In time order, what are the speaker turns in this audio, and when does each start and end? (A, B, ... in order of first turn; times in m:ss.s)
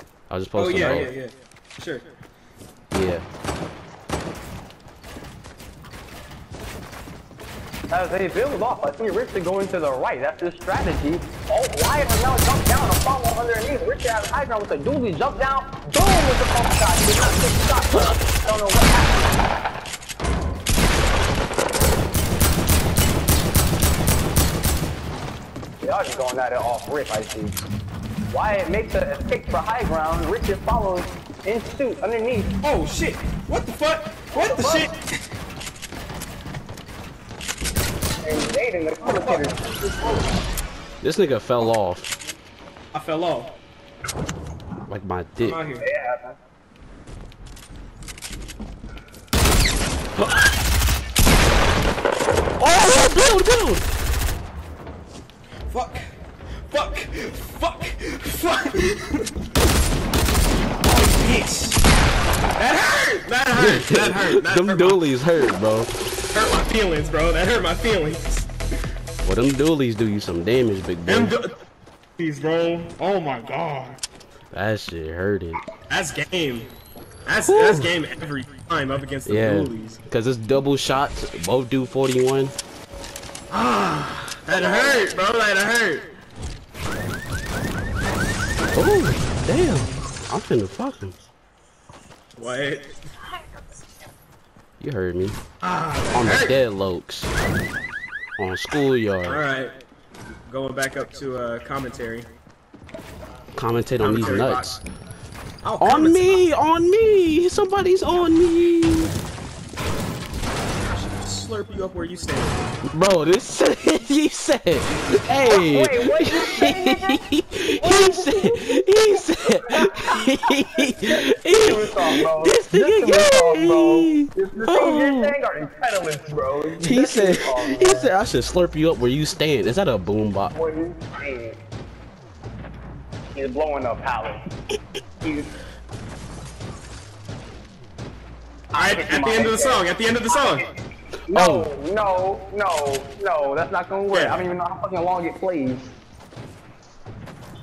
0:00.3-0:01.1 A
0:00.6-0:02.1 B
0:02.9-0:03.2 A
0:07.9-0:19.4 C
0:25.8-0:27.6 C
0:28.3-0:32.6 C
0:32.6-0:35.0 B
0:34.4-0:34.9 C
0:38.2-0:40.3 C
0:39.1-0:39.4 B
0:41.0-0:42.1 A
0:42.9-0:43.6 B
0:44.9-0:45.6 A
0:45.4-0:45.9 B
0:45.8-0:46.4 C
0:50.2-0:50.5 A
0:52.6-0:53.9 A
0:55.7-0:56.1 B
0:56.7-0:59.3 B
1:00.8-1:01.8 B
1:02.6-1:05.0 B
1:03.6-1:05.9 A
1:06.3-1:08.5 B
1:09.2-1:11.4 A
1:11.1-1:11.5 B
1:12.2-1:14.0 B
1:14.5-1:15.6 A
1:15.9-1:16.7 B
1:17.3-1:20.0 B
1:17.5-1:17.9 A
1:19.2-1:22.5 A
1:23.5-1:26.1 B
1:24.5-1:25.1 C
1:28.7-1:31.2 A
1:32.4-1:33.0 B
1:34.8-1:35.4 A
1:35.6-1:36.6 B
1:36.1-1:37.3 A
1:38.4-1:39.4 A
1:39.2-1:39.8 B
1:40.5-1:42.3 B
1:43.6-1:44.8 A
1:44.0-1:44.8 B
1:45.6-1:46.4 B
1:45.8-1:49.1 A
1:50.8-1:52.7 B
1:52.9-2:05.4 A
1:55.5-1:57.2 C
1:57.8-2:08.1 C
2:06.8-2:10.5 A
2:10.5-2:11.6 C
2:13.3-2:14.4 C
2:15.2-2:15.5 C
2:18.7-2:20.7 C
2:18.7-2:20.7 B
2:21.3-2:21.7 A
2:21.3-2:26.0 C
2:24.1-2:24.4 B